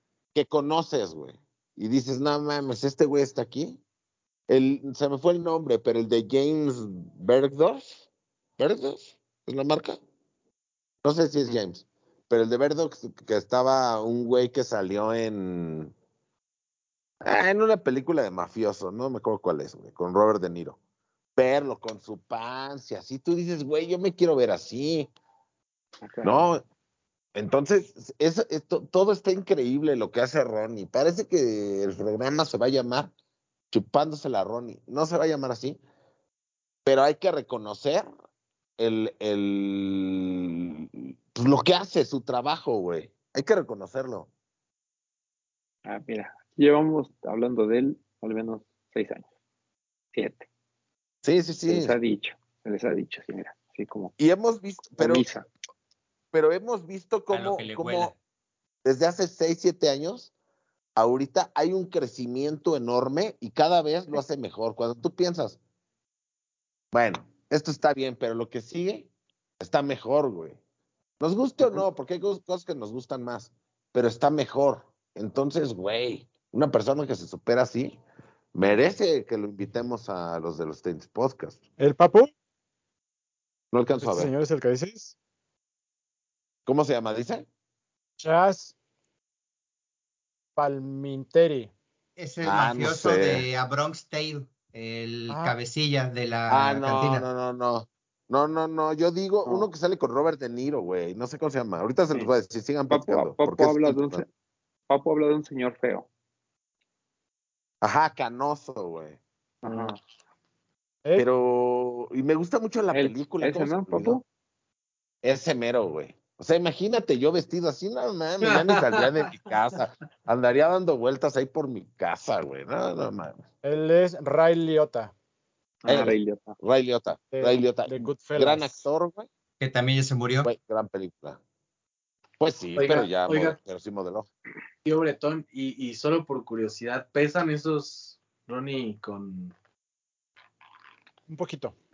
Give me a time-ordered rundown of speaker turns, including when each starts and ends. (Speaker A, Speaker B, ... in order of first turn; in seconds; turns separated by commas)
Speaker A: 0.3-3.8, Speaker A: 4.5-8.1, Speaker A: 8.6-10.0, Speaker A: 11.0-15.9, Speaker A: 17.2-20.8, Speaker A: 21.4-25.1, Speaker B: 26.0-26.4, Speaker A: 26.2-26.6, Speaker A: 27.4-33.1, Speaker A: 33.7-35.8, Speaker A: 36.9-38.1, Speaker A: 38.8-44.3, Speaker B: 45.9-49.3, Speaker B: 50.1-50.5, Speaker A: 51.2-52.0, Speaker B: 51.7-54.1, Speaker A: 54.2-55.3, Speaker B: 55.0-55.5, Speaker A: 56.3-58.1, Speaker C: 57.3-58.1, Speaker A: 58.9-60.3, Speaker A: 61.0-65.6, Speaker A: 66.9-69.1, Speaker A: 69.6-70.6, Speaker A: 71.2-78.0, Speaker A: 78.5-81.6, Speaker D: 81.8-82.3, Speaker A: 83.7-84.3, Speaker D: 84.0-85.2, Speaker A: 86.7-87.5, Speaker D: 88.2-88.8, Speaker D: 90.6-91.7, Speaker C: 92.2-97.3, Speaker A: 92.4-93.5, Speaker D: 95.3-95.6, Speaker A: 96.5-104.2, Speaker B: 102.9-104.3, Speaker B: 104.9-106.1, Speaker A: 107.8-109.2, Speaker B: 109.6-110.0, Speaker E: 109.7-109.9, Speaker A: 111.2-114.2, Speaker B: 112.9-114.2, Speaker A: 115.2-123.5, Speaker E: 118.4-119.3, Speaker D: 123.6-125.1, Speaker B: 125.9-126.6, Speaker A: 125.9-129.3, Speaker D: 127.3-128.9, Speaker C: 129.6-130.5, Speaker A: 130.4-131.4, Speaker A: 132.4-134.3, Speaker E: 132.8-133.6, Speaker E: 134.8-139.5, Speaker D: 141.3-141.8